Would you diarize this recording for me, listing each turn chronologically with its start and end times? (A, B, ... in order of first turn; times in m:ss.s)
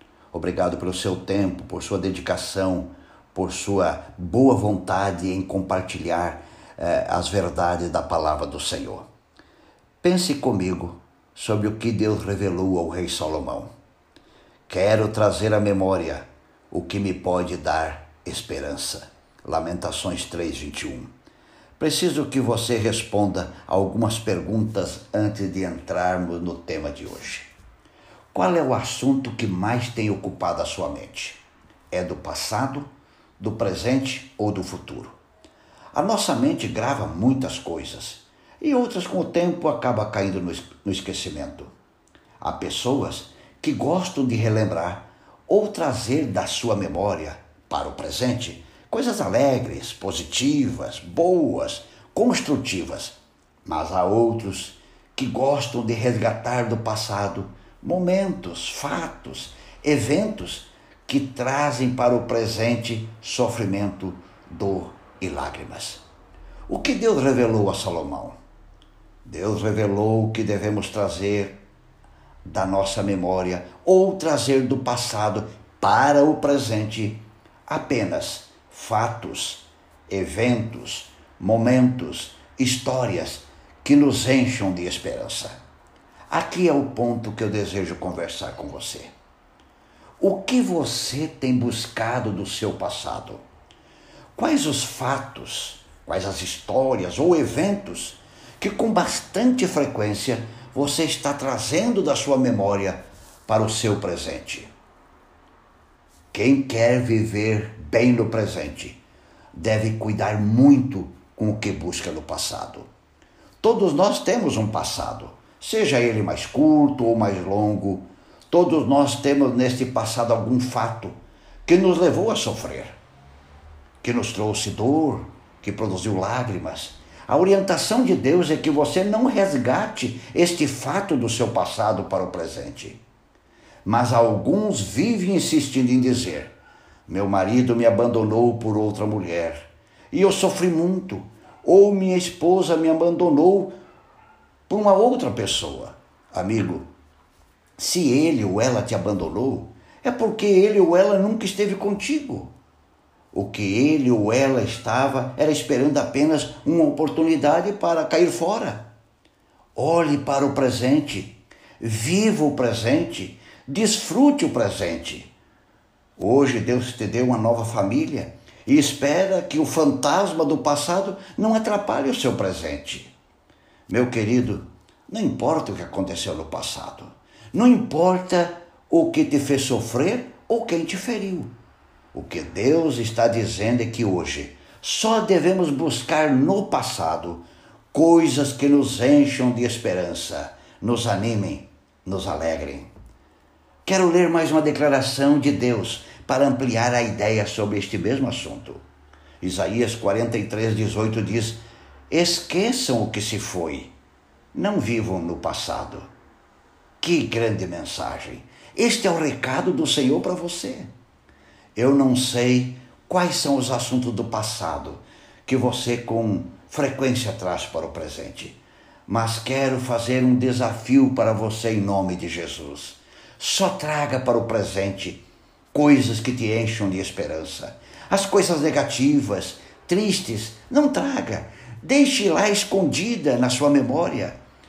0:00.3-0:09.1 A
0:10.0-0:13.7 A
0:14.7-0:21.1 A
0:21.8-0:27.5 A
0:28.3-0:35.2 A
0:35.9-0:41.7 A
0:42.4-1:06.0 A
1:06.7-1:08.4 A
1:09.2-1:11.6 A
1:12.4-1:25.6 A
1:26.3-1:29.1 A
1:30.2-1:33.4 A
1:34.3-1:44.7 A
1:46.3-1:49.0 A
1:49.5-1:52.9 A
1:53.6-2:03.0 A
2:04.0-2:13.0 A
2:13.8-2:16.5 A
2:17.1-2:23.7 A
2:24.7-2:26.9 A
2:27.8-2:32.5 A
2:33.3-2:38.8 A
2:39.8-2:45.3 A
2:46.2-2:53.1 A
2:53.9-3:01.5 A
3:02.1-3:12.9 A
3:13.8-3:18.8 A
3:19.4-3:23.9 A
3:24.5-3:26.1 A
3:27.0-3:30.9 A
3:31.8-3:54.4 A